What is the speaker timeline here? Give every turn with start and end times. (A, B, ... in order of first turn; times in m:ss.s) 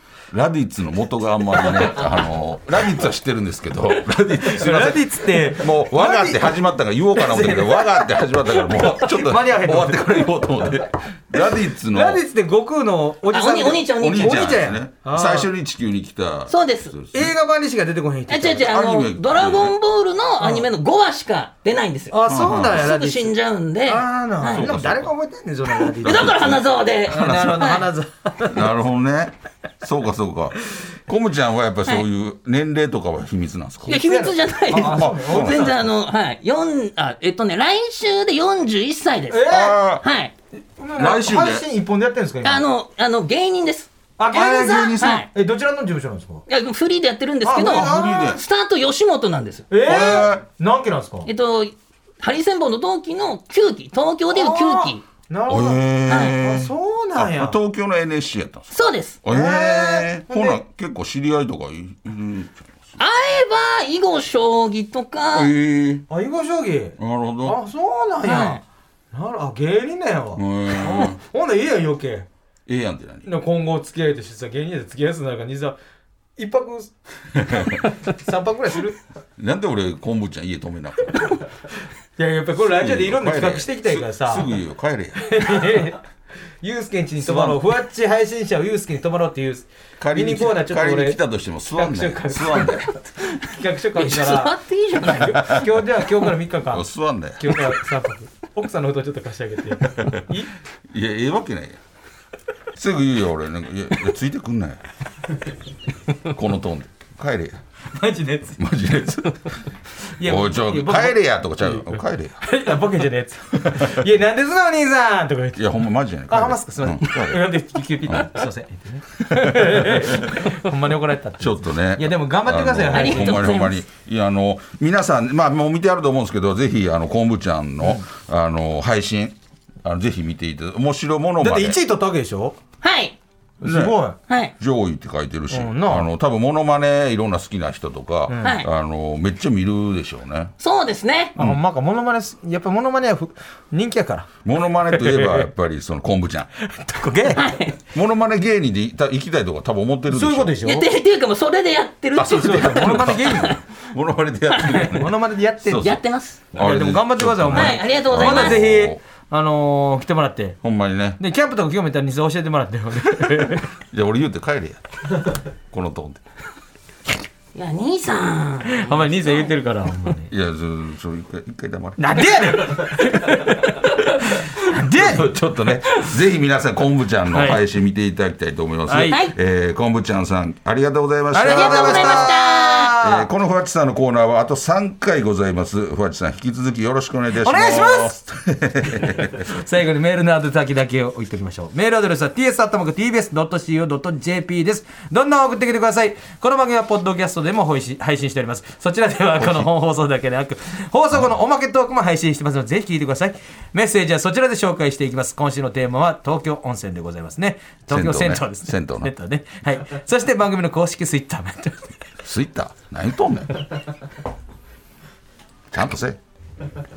0:00.3-0:12.2 A
0:01.6-0:01.9 B
0:04.4-0:06.6 C
0:07.1-0:10.3 C
0:11.9-0:15.5 C
0:13.3-0:14.5 B
0:14.0-0:17.3 A
0:16.5-0:16.9 B
0:17.1-0:18.7 C
0:18.3-0:24.7 B
0:18.6-0:19.7 A
0:20.4-0:20.7 C
0:22.1-0:28.6 C
0:22.3-0:22.9 A
0:24.5-0:25.1 A
0:25.8-0:27.6 A
0:26.0-0:27.9 B
0:28.4-0:34.0 A
0:33.9-0:35.9 C
0:33.9-0:40.3 B
0:34.8-0:35.7 A
0:39.3-0:39.8 C
0:39.4-0:40.0 A
0:40.8-0:42.6 C
0:40.9-0:41.7 A
0:42.4-0:43.9 B
0:44.2-0:46.4 C
0:44.3-0:45.2 A
0:45.0-0:45.3 B
0:46.5-0:49.7 B
0:47.4-0:48.4 C
0:47.5-0:48.4 A
0:49.7-0:51.3 C
0:49.8-0:50.4 A
0:51.2-0:55.0 B
0:54.3-0:57.6 C
0:55.5-1:03.0 A
0:56.1-0:56.3 B
0:58.7-0:59.2 B
0:59.2-1:00.6 C
1:03.0-1:05.5 B
1:05.3-1:06.0 A
1:06.1-1:12.3 C
1:07.0-1:07.6 A
1:08.2-1:08.6 B
1:10.3-1:11.2 A
1:12.7-1:13.3 A
1:13.2-1:15.8 C
1:16.4-1:19.0 C
1:17.4-1:17.8 A
1:19.4-1:21.4 A
1:22.2-1:24.5 C
1:22.6-1:25.8 A
1:25.2-1:26.0 C
1:26.6-1:31.2 C
1:27.2-1:27.6 A
1:30.0-1:32.9 A
1:31.7-1:40.5 C
1:33.9-1:35.4 B
1:36.7-1:37.8 A
1:39.8-1:40.3 A
1:40.9-1:41.8 A
1:42.7-1:44.8 A
1:46.2-1:47.6 A
1:47.9-1:48.6 C
1:48.6-1:52.4 A
1:50.1-1:55.6 C
1:53.6-1:53.9 A
1:55.5-1:58.3 A
1:56.3-2:03.6 C
1:59.3-2:00.5 A
2:01.4-2:11.8 A
2:02.9-2:03.8 B
2:11.4-2:12.6 C
2:12.8-2:13.2 B
2:13.6-2:14.2 C
2:13.6-2:14.0 A
2:14.3-2:14.5 B
2:14.6-2:20.5 A
2:15.5-2:16.1 C
2:18.3-2:18.6 C
2:18.4-2:18.7 B
2:20.6-2:21.3 B
2:21.4-2:24.3 C
2:24.4-2:26.5 A
2:24.9-2:25.4 C
2:26.6-2:27.4 C
2:27.3-2:27.8 B
2:27.9-2:30.6 A
2:30.1-2:30.9 C
2:30.6-2:33.6 B
2:32.2-2:39.0 A
2:32.3-2:33.6 C
2:34.6-2:36.0 C
2:35.8-2:36.4 B
2:36.5-2:40.6 C
2:37.5-2:38.7 B
2:40.6-2:41.2 A
2:41.2-2:43.7 C
2:43.2-2:45.0 A
2:45.7-2:46.2 A
2:47.5-2:49.5 B
2:48.6-2:50.3 C
2:50.3-2:52.8 A
2:52.0-2:53.9 C
2:54.4-2:55.4 C
2:54.7-3:02.3 A
2:57.3-2:57.6 C
2:58.9-2:59.2 C
2:59.1-2:59.3 B
3:01.3-3:03.3 C
3:01.4-3:02.9 B
3:03.0-3:09.4 A
3:07.4-3:08.2 C
3:09.0-3:31.9 C
3:19.4-3:19.6 A
3:27.9-3:29.1 A
3:32.2-3:33.6 A
3:35.7-3:36.2 A